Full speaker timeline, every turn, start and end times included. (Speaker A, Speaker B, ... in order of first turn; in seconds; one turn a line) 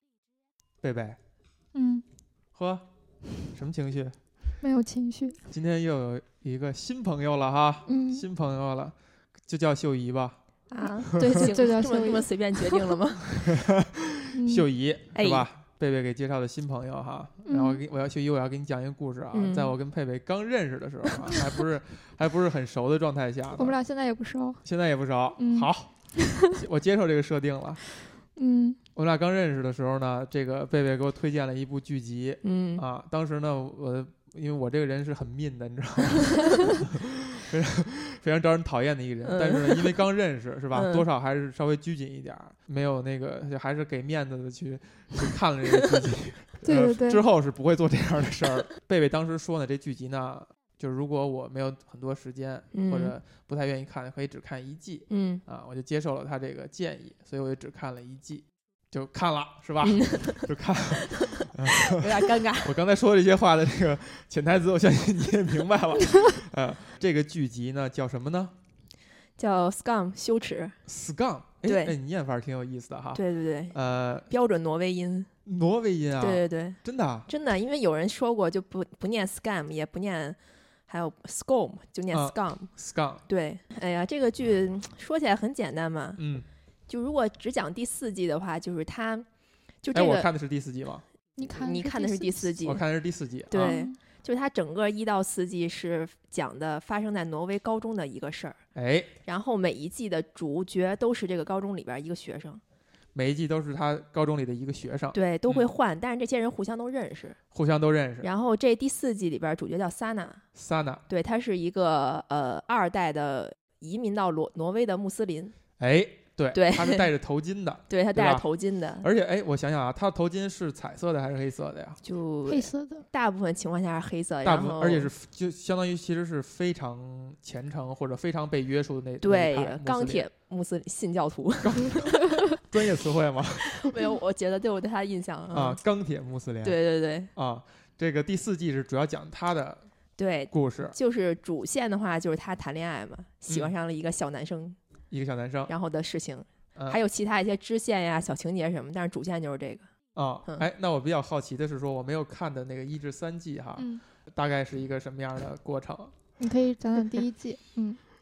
Speaker A: 0.8-1.2
Speaker B: 1.7-2.0
Speaker A: 2.5-2.9
Speaker A: 3.5-4.2
Speaker B: 4.6-5.4
Speaker A: 5.5-10.4
Speaker B: 7.9-8.2
Speaker C: 10.7-13.7
Speaker B: 11.2-12.8
Speaker A: 13.3-23.8
Speaker B: 14.3-14.7
Speaker C: 15.1-15.4
Speaker B: 17.4-17.8
Speaker C: 19.3-19.7
Speaker B: 23.6-24.6
Speaker A: 24.6-27.8
Speaker B: 25.4-26.5
Speaker B: 28.4-28.8
Speaker A: 28.9-68.5
Speaker C: 32.4-32.8
Speaker C: 39.2-40.0
Speaker C: 40.7-41.0
Speaker B: 46.6-47.2
Speaker C: 52.7-53.1
Speaker C: 55.1-55.4
Speaker C: 59.8-60.5
Speaker C: 61.2-62.7
Speaker C: 69.4-70.8
Speaker A: 70.8-74.3
Speaker C: 71.6-71.9
Speaker C: 73.1-75.3
Speaker A: 75.5-77.3
Speaker C: 76.2-82.7
Speaker A: 82.1-83.2
Speaker C: 83.3-86.2
Speaker A: 86.2-86.5
Speaker C: 86.9-89.2
Speaker C: 89.8-90.3
Speaker A: 89.9-91.0
Speaker B: 91.4-92.5
Speaker C: 91.5-92.8
Speaker A: 92.6-93.8
Speaker C: 93.5-98.6
Speaker B: 93.5-94.0
Speaker A: 98.7-99.1
Speaker C: 99.2-102.6
Speaker A: 103.1-105.7
Speaker C: 105.1-107.4
Speaker A: 107.5-108.3
Speaker C: 108.2-110.4
Speaker A: 110.5-111.0
Speaker C: 111.1-115.5
Speaker A: 115.8-118.5
Speaker C: 116.5-117.1
Speaker C: 117.9-119.1
Speaker A: 119.0-122.0
Speaker C: 122.0-125.1
Speaker B: 122.5-123.0
Speaker A: 124.4-130.3
Speaker C: 129.2-132.6
Speaker A: 131.6-133.9
Speaker C: 133.6-135.8
Speaker A: 135.5-136.8
Speaker C: 136.6-137.3
Speaker A: 137.3-139.8
Speaker C: 140.2-144.8
Speaker A: 140.5-140.9
Speaker A: 145.1-145.7
Speaker C: 145.7-149.9
Speaker A: 150.1-156.2
Speaker B: 153.8-154.0
Speaker B: 156.4-158.0